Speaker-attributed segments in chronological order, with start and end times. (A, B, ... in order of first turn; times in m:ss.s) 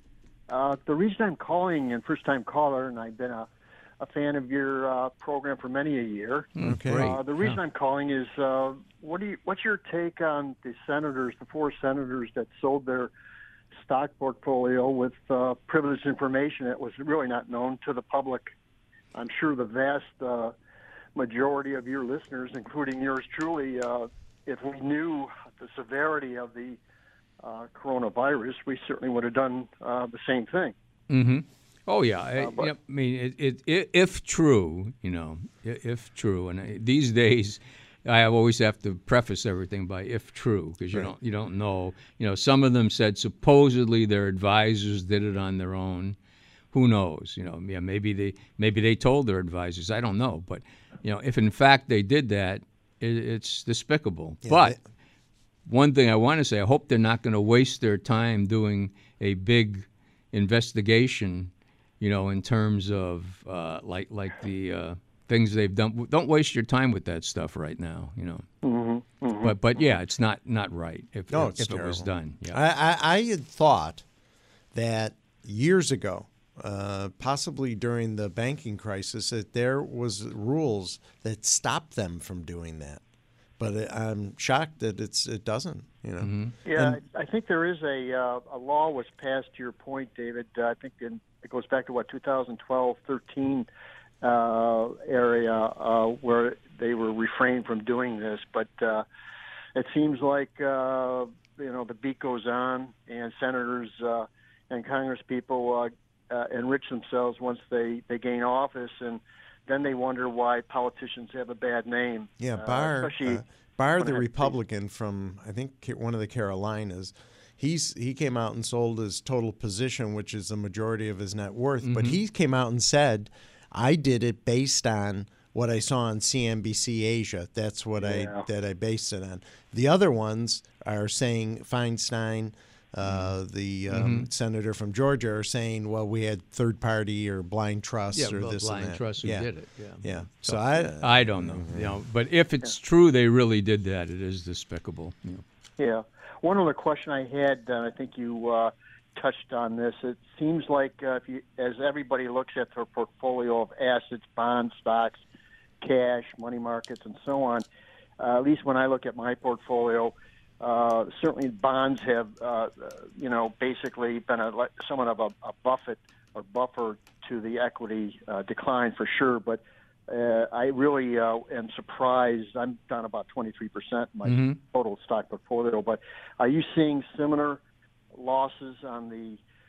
0:00.5-0:03.5 A
0:04.0-0:13.1 A
0:06.5-0:07.6 B
0:06.6-0:07.1 C
0:13.8-0:18.5 A
0:19.1-0:20.5 A
0:21.2-0:26.8 A
0:27.4-0:30.7 A
0:31.1-0:46.2 B
0:32.4-0:32.7 A
0:46.7-0:54.8 B
0:54.4-0:54.8 C
0:55.6-1:08.4 B
1:08.6-1:09.6 A
1:09.4-1:12.6 B
1:11.3-1:14.0 C
1:14.7-1:23.0 C
1:23.6-1:27.0 C
1:26.2-1:26.5 B
1:26.6-1:33.7 A
1:34.2-1:39.0 A
1:39.8-1:53.4 A
1:52.4-2:19.5 C
1:54.0-1:54.5 A
2:01.8-2:02.2 B
2:08.0-2:08.4 A
2:13.0-2:13.3 B
2:13.9-2:14.3 B
2:18.1-2:25.4 B
2:20.0-2:22.0 C
2:25.8-2:35.2 A
2:35.8-2:37.6 A
2:38.2-2:57.6 A
2:54.2-2:54.6 B
2:58.1-2:59.4 A